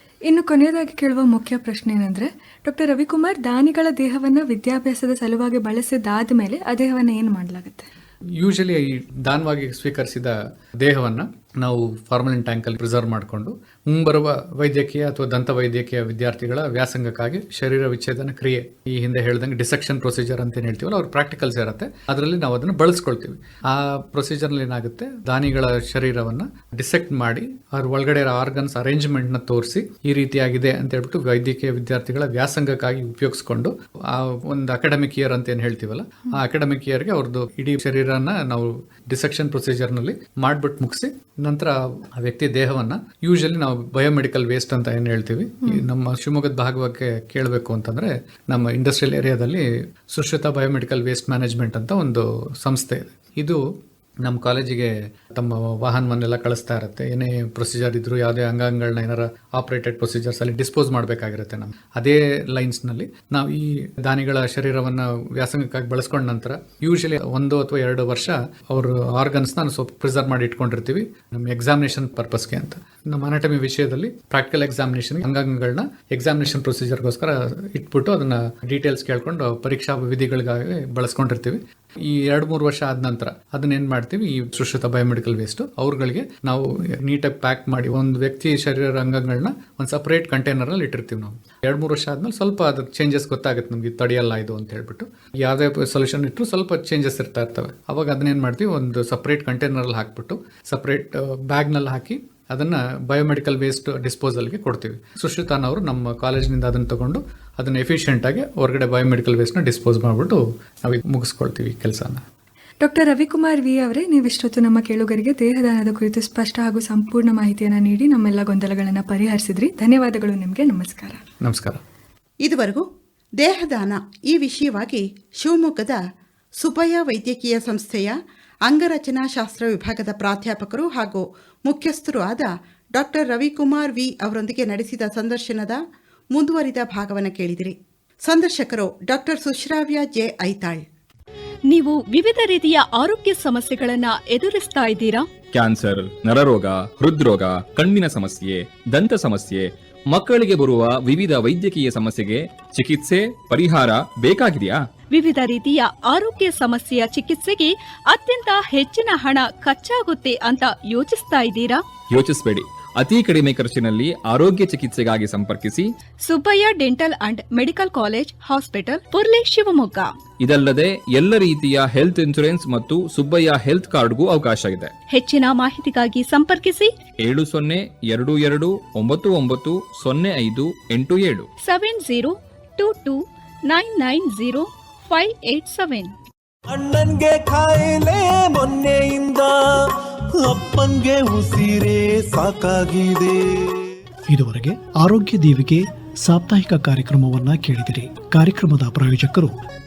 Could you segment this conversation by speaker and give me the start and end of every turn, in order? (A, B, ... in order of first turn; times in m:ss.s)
0:00.3-0:07.9 A
0:08.4-0:53.6 B
0:54.2-1:52.2 B
1:52.8-2:01.2 A
2:01.4-2:01.8 B
2:02.4-2:02.8 C
2:03.4-2:06.0 C
2:06.6-2:15.8 C
2:16.3-2:20.8 C
2:21.7-2:25.3 D
2:25.5-2:34.8 E
2:35.1-2:41.8 D
2:42.1-2:45.9 E
2:46.2-2:50.1 D
2:50.4-2:55.0 E
2:55.1-2:56.9 D
2:57.2-3:01.5 E
3:01.6-3:06.1 D
3:06.7-3:09.8 F
3:10.3-3:13.8 F
3:14.3-3:19.5 G